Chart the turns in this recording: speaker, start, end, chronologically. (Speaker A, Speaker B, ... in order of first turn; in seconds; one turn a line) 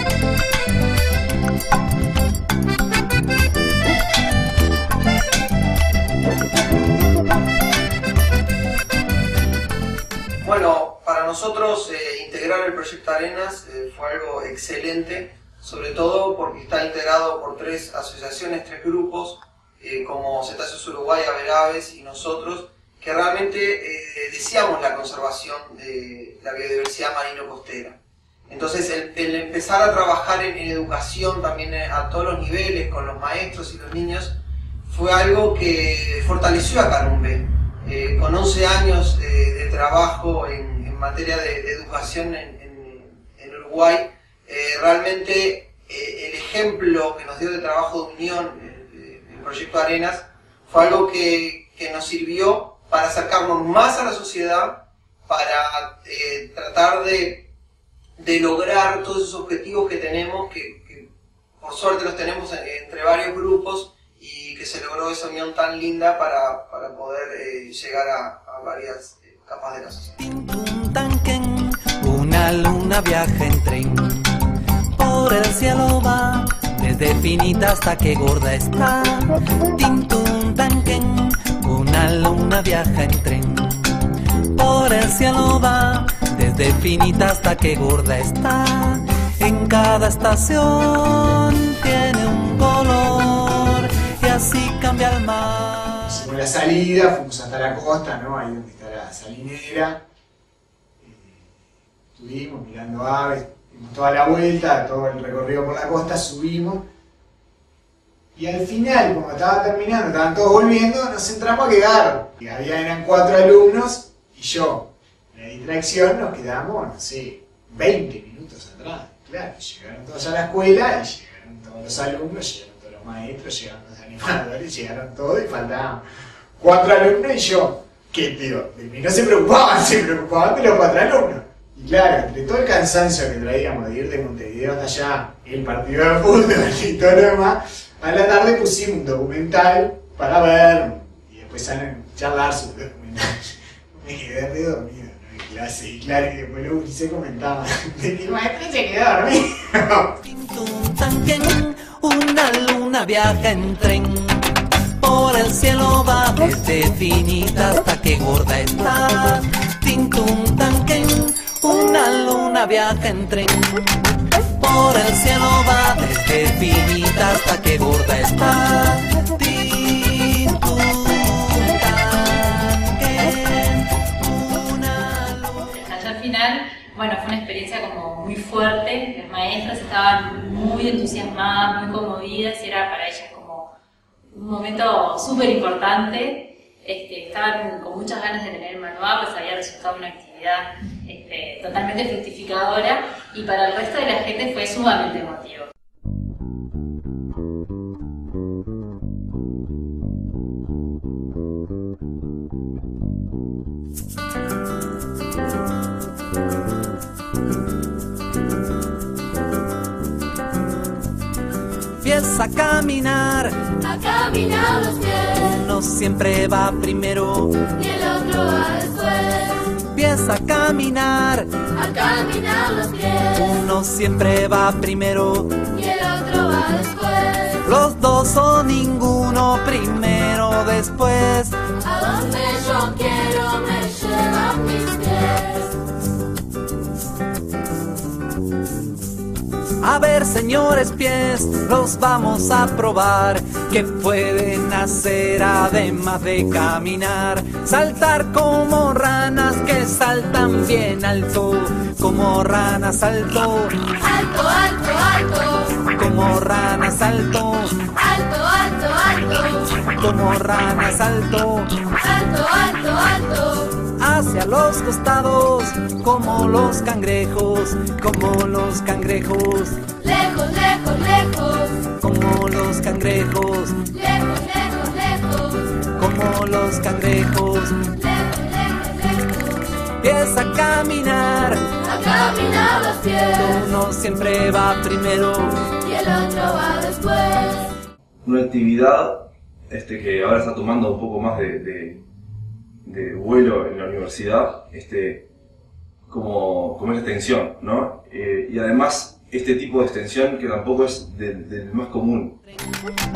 Speaker A: 10.4-57.5
Speaker A: 58.2-61.1
Speaker A: 61.6-70.1
Speaker B: 70.2-74.2
Speaker B: 75.0-83.9
Speaker B: 84.5-96.1
Speaker C: 96.0-100.0
Speaker C: 101.0-101.3
Speaker C: 102.2-106.8
Speaker C: 108.3-126.0
Speaker C: 126.6-143.2
Speaker C: 144.0-150.2
Speaker B: 150.2-154.4
Speaker B: 155.0-163.9
Speaker B: 164.6-175.7
Speaker D: 175.7-183.8
Speaker D: 184.3-195.7
Speaker B: 212.0-213.6
Speaker E: 214.5-215.1
Speaker B: 215.3-217.6
Speaker E: 217.8-219.4
Speaker B: 219.8-221.5
Speaker E: 221.9-223.2
Speaker B: 223.3-225.6
Speaker E: 225.8-227.5
Speaker B: 227.6-231.6
Speaker E: 231.9-233.3
Speaker E: 233.8-235.1
Speaker B: 239.8-253.8
Speaker E: 254.3-255.3
Speaker B: 255.9-257.8
Speaker E: 258.1-259.4
Speaker B: 259.9-261.7
Speaker E: 262.2-263.3
Speaker B: 263.9-269.9
Speaker D: 270.5-270.9
Speaker B: 271.9-273.9
Speaker B: 275.9-277.8
Speaker B: 280.0-281.6
Speaker D: 282.4-282.7
Speaker B: 283.3-285.5
Speaker D: 286.1-287.3
Speaker F: 288.2-292.0
Speaker F: 292.9-295.3
Speaker F: 296.1-302.4